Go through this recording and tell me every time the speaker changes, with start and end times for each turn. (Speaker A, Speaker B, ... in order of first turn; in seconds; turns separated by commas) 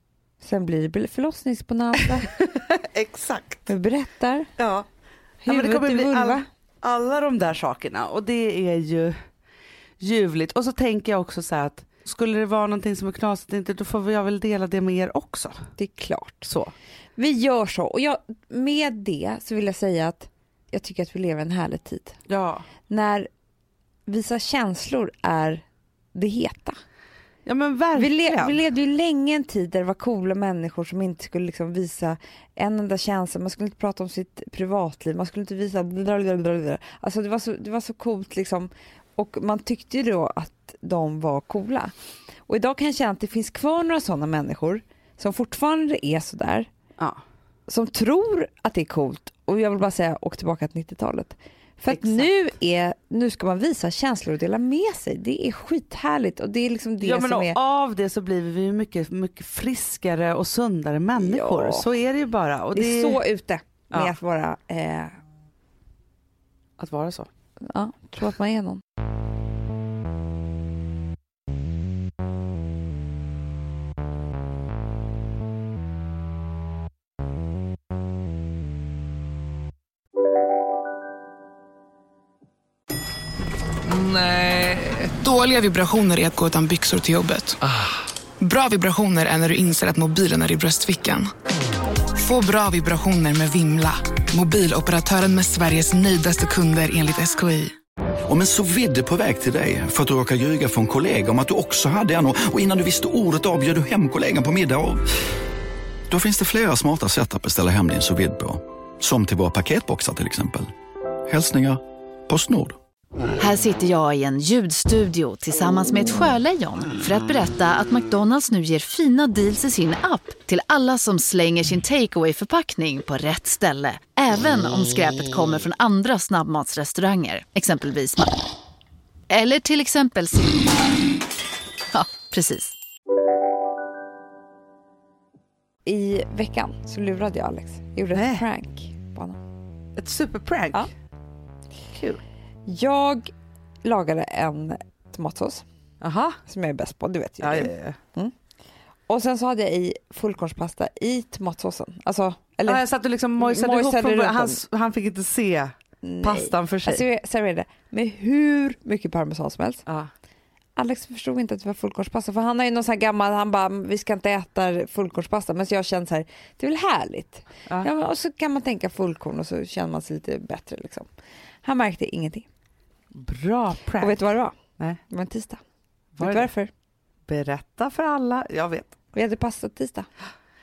Speaker A: 0.4-2.3, Speaker B: 2.3-3.7, Speaker A: 3.7-4.5, Speaker B: 4.6-4.9, Speaker A: 5.4-6.5, Speaker B: 5.5-9.2, Speaker B: 10.0-15.6, Speaker A: 15.8-16.5, Speaker B: 16.4-16.7, Speaker A: 17.2-22.2, Speaker B: 22.3-22.6, Speaker A: 22.9-23.3, Speaker A: 24.1-26.8, Speaker B: 27.5-28.6, Speaker A: 27.9-41.9, Speaker A: 42.5-46.7, Speaker A: 47.7-57.6, Speaker B: 51.9-52.3, Speaker B: 57.0-63.2, Speaker A: 61.2-61.9, Speaker A: 62.7-65.2, Speaker B: 63.9-64.2, Speaker B: 66.8-67.3, Speaker A: 67.7-68.8, Speaker C: 83.8-87.8, Speaker C: 88.4-91.3, Speaker C: 92.1-97.8, Speaker D: 98.3-105.1, Speaker D: 106.1-110.7, Speaker D: 111.3-112.8, Speaker E: 113.4-128.3, Speaker E: 129.3-130.7, Speaker E: 131.9-132.8, Speaker A: 135.9-139.4, Speaker B: 138.1-138.4, Speaker B: 140.0-140.9, Speaker B: 141.9-142.2, Speaker A: 142.7-143.3, Speaker A: 143.8-145.6, Speaker B: 146.0-146.4, Speaker A: 146.5-148.3, Speaker B: 147.4-148.0, Speaker A: 149.1-152.8, Speaker B: 152.7-157.0, Speaker A: 153.4-154.6, Speaker A: 156.0-159.8, Speaker A: 160.8-171.1, Speaker A: 171.6-172.5, Speaker B: 173.1-175.0, Speaker A: 174.0-174.5, Speaker A: 175.1-175.6, Speaker B: 176.2-176.5, Speaker A: 176.2-176.7, Speaker B: 177.3-178.9, Speaker A: 179.1-180.1